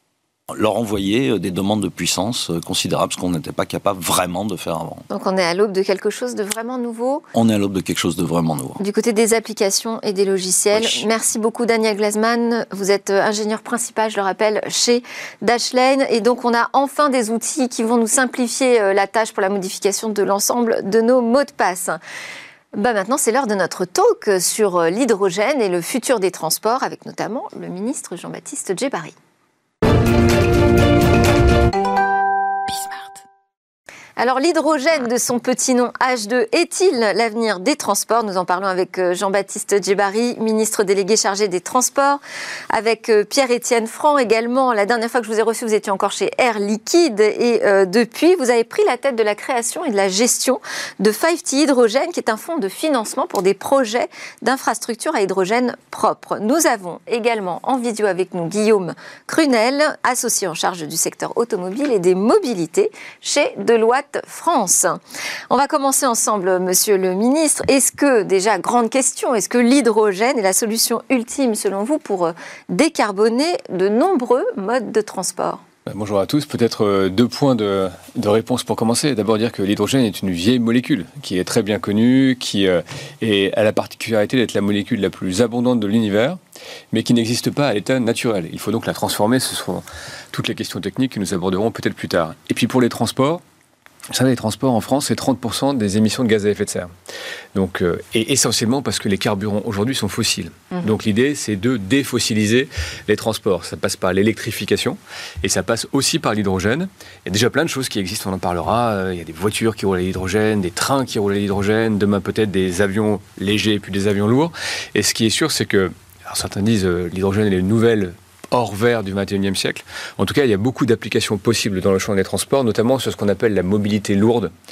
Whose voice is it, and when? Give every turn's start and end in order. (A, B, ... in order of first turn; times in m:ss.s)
0:00.5-0:05.0 A
0:05.1-0:07.2 B
0:07.3-0:08.8 A
0:08.8-0:22.0 B
0:10.7-0:11.0 A
0:22.7-0:29.1 B
0:34.2-1:15.6 B
1:15.8-1:26.4 C
1:26.9-1:33.4 C
1:34.1-1:36.9 C
1:37.5-2:04.5 C